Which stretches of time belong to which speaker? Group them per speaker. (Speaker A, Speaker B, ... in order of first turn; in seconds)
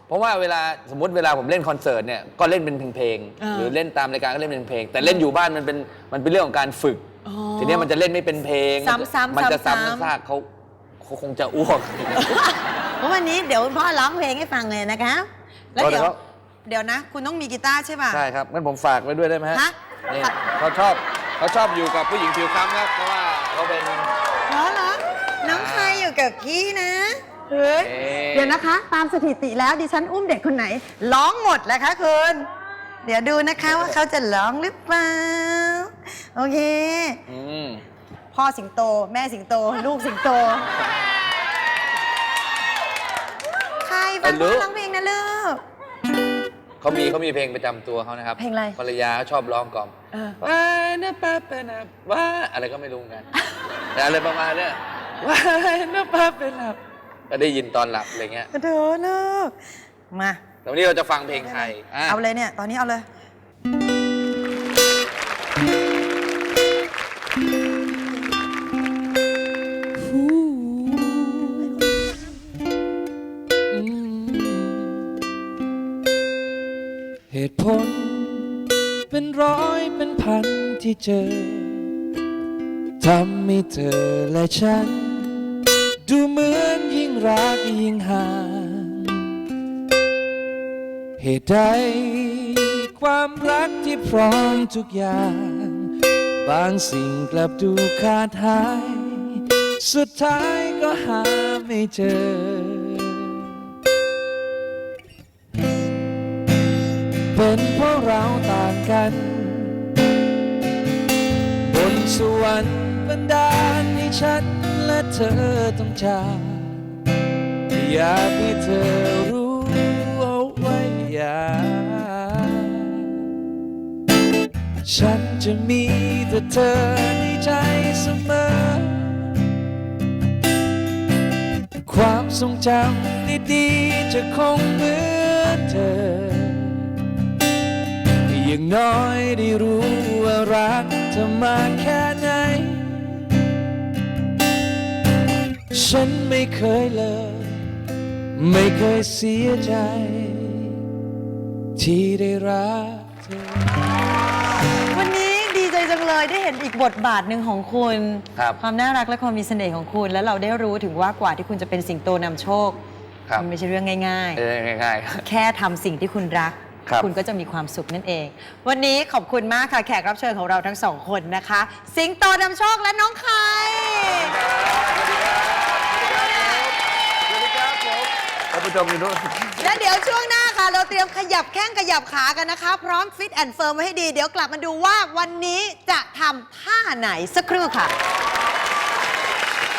Speaker A: 0.1-7.0, 7.6-10.5, 11.0-12.4, 15.8-16.1, 18.1-24.1, 25.4-26.1, 27.8-28.6, 33.6-34.0, 37.3-37.8, 44.2-44.7, 46.8-53.3, 53.9-58.5, 60.6-62.2, 164.3-165.2, 174.1-179.8
Speaker B: 3.4-3.7, 7.2-7.9, 8.8-10.1, 12.2-16.1, 16.6-18.2, 19.5-20.3, 24.5-32.5, 33.0-37.2, 38.3-40.7, 43.8-45.6, 48.4-48.8, 50.1-50.4, 58.5-59.5, 60.1-60.4, 61.4-63.0, 154.9-162.8, 163.3-164.4, 165.2-174.4, 176.0-176.7, 179.6-187.9
Speaker C: 70.0-71.8, 73.7-75.0, 77.3-81.9, 83.0-89.4, 91.2-103.5, 107.3-110.0, 111.6-116.8, 117.7-123.2, 124.8-129.4, 131.8-136.9, 138.2-143.3, 145.7-147.6, 148.3-150.8, 151.8-153.8